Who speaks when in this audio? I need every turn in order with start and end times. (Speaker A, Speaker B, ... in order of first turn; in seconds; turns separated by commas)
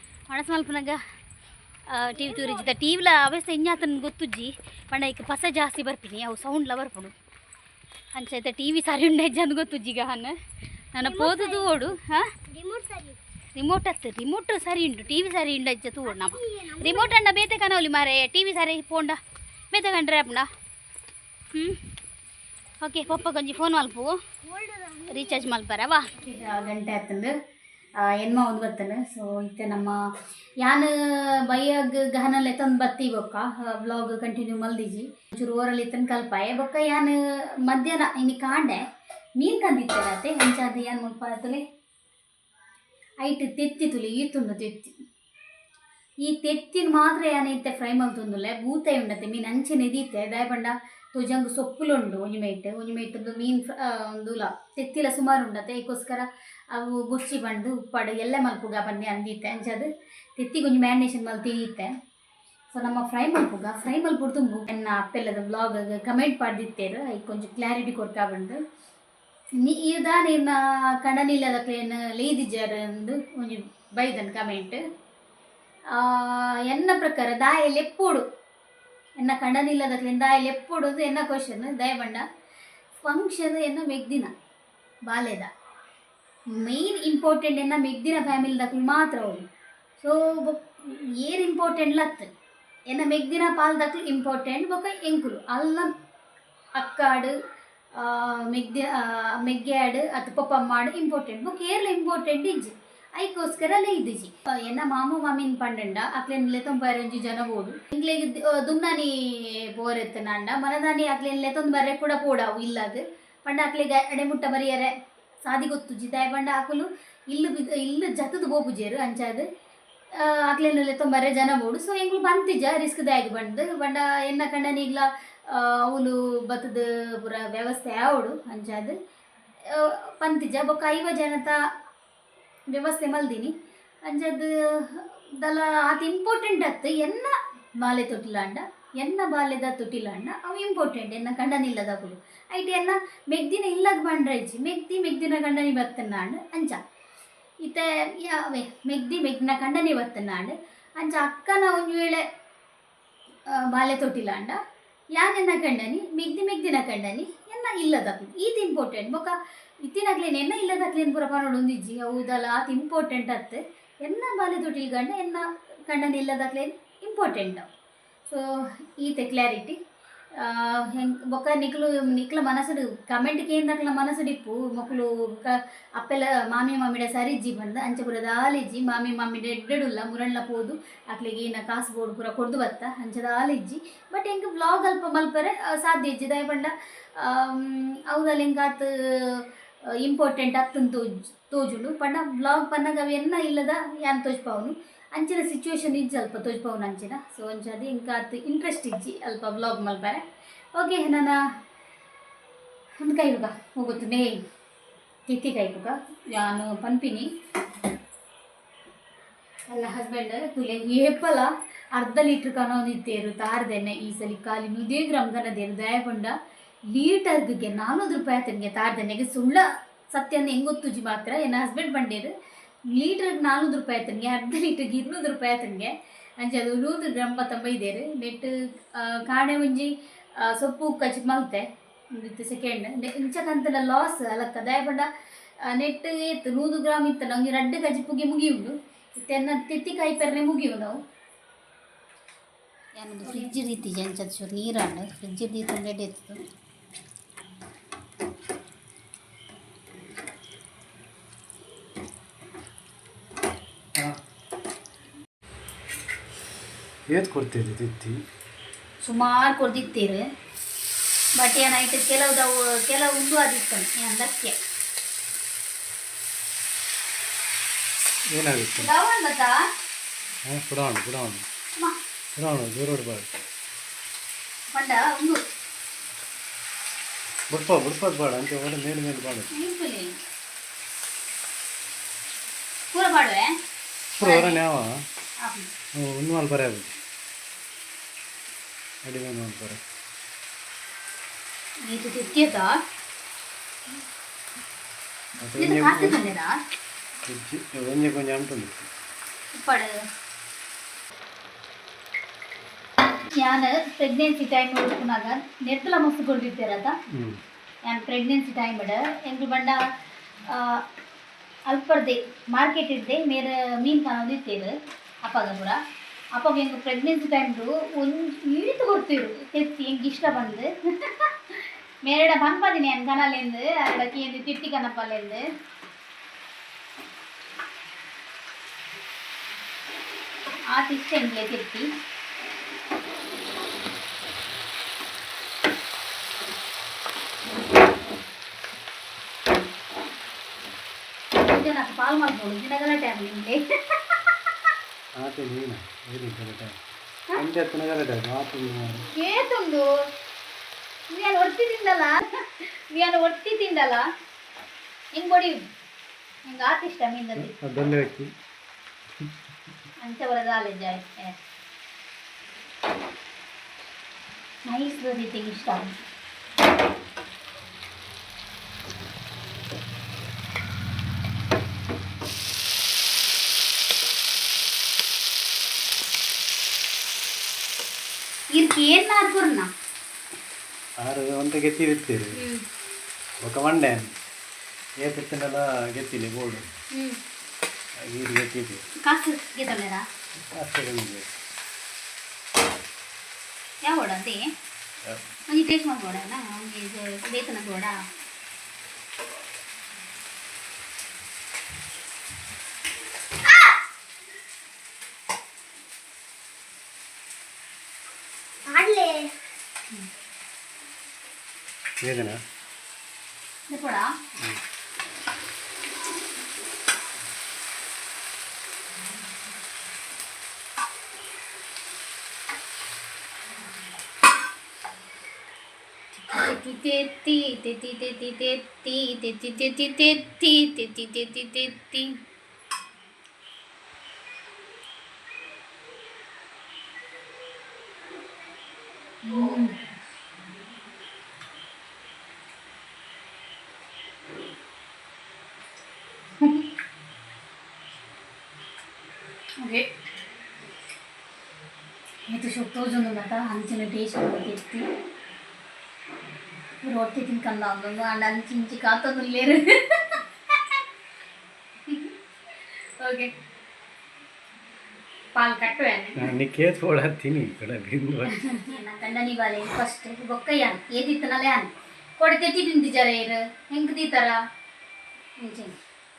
Speaker A: 0.3-1.0, Speaker A: 1.9-7.1, Speaker A: 8.1-10.3, Speaker A: 10.9-12.3, Speaker B: 11.0-11.9, Speaker B: 12.5-13.2, Speaker A: 13.6-19.2, Speaker B: 16.1-17.1, Speaker A: 19.7-20.5, Speaker A: 21.5-21.8, Speaker A: 22.8-24.1, Speaker B: 24.4-25.5, Speaker A: 25.1-27.3, Speaker A: 28.0-30.0, Speaker A: 30.6-38.9, Speaker A: 39.4-41.6, Speaker A: 43.2-44.9, Speaker A: 46.2-61.9, Speaker A: 62.7-68.6, Speaker A: 69.6-74.8, Speaker A: 75.9-78.2, Speaker A: 79.2-82.2, Speaker A: 83.0-84.3, Speaker A: 85.0-85.5, Speaker A: 86.5-89.5, Speaker A: 90.0-92.3, Speaker A: 92.9-95.9, Speaker A: 96.8-97.3, Speaker A: 97.9-109.1, Speaker A: 109.7-114.9, Speaker A: 115.4-119.5, Speaker A: 120.1-129.0, Speaker A: 129.7-131.6, Speaker A: 132.7-133.5, Speaker A: 134.0-146.8, Speaker A: 147.6-152.2, Speaker A: 153.5-154.6, Speaker A: 155.1-167.7, Speaker A: 169.0-169.8, Speaker A: 170.3-201.4, Speaker A: 203.0-204.4, Speaker A: 205.3-207.3, Speaker A: 209.7-216.3, Speaker A: 216.9-222.3, Speaker A: 222.9-235.1, Speaker A: 235.6-241.0, Speaker A: 243.0-246.4, Speaker C: 257.1-258.2, Speaker A: 259.0-260.2, Speaker A: 261.4-264.6, Speaker C: 268.3-268.9, Speaker A: 268.8-269.6, Speaker C: 270.5-271.4, Speaker C: 272.4-273.3, Speaker A: 274.7-275.4, Speaker C: 277.5-279.5, Speaker A: 279.5-280.1, Speaker A: 282.9-283.5, Speaker C: 284.2-285.0, Speaker A: 284.2-284.6, Speaker A: 285.4-285.7, Speaker C: 285.9-286.9, Speaker C: 289.0-289.8, Speaker A: 291.8-292.8, Speaker C: 295.4-296.2, Speaker A: 295.6-296.6, Speaker C: 297.2-298.9, Speaker A: 299.5-299.9, Speaker A: 303.4-306.9, Speaker C: 307.1-307.4, Speaker A: 307.8-309.8, Speaker A: 310.5-310.8, Speaker A: 311.7-315.8, Speaker A: 316.3-325.4, Speaker A: 330.7-331.9, Speaker A: 341.4-344.3, Speaker C: 345.2-346.8, Speaker C: 347.4-349.1, Speaker A: 349.1-349.9, Speaker A: 351.1-354.1, Speaker A: 355.1-355.6, Speaker A: 356.5-357.5, Speaker C: 357.4-358.3, Speaker A: 360.0-361.4, Speaker A: 364.6-365.9, Speaker A: 378.5-379.7, Speaker C: 381.0-382.3, Speaker A: 382.4-382.6, Speaker C: 383.4-384.1, Speaker C: 385.0-386.7, Speaker A: 386.9-387.2, Speaker C: 388.0-388.8, Speaker A: 389.0-390.1, Speaker C: 390.4-391.3, Speaker A: 393.8-394.4, Speaker A: 395.5-398.0, Speaker B: 408.7-409.3, Speaker C: 412.0-412.4, Speaker A: 413.7-414.1, Speaker A: 426.1-432.1, Speaker A: 439.2-439.8, Speaker A: 449.6-449.9, Speaker A: 452.3-454.8, Speaker A: 456.8-460.2, Speaker A: 461.9-462.1, Speaker A: 463.0-463.3, Speaker A: 465.3-466.3, Speaker C: 466.2-468.6, Speaker A: 468.3-474.4, Speaker A: 475.4-475.7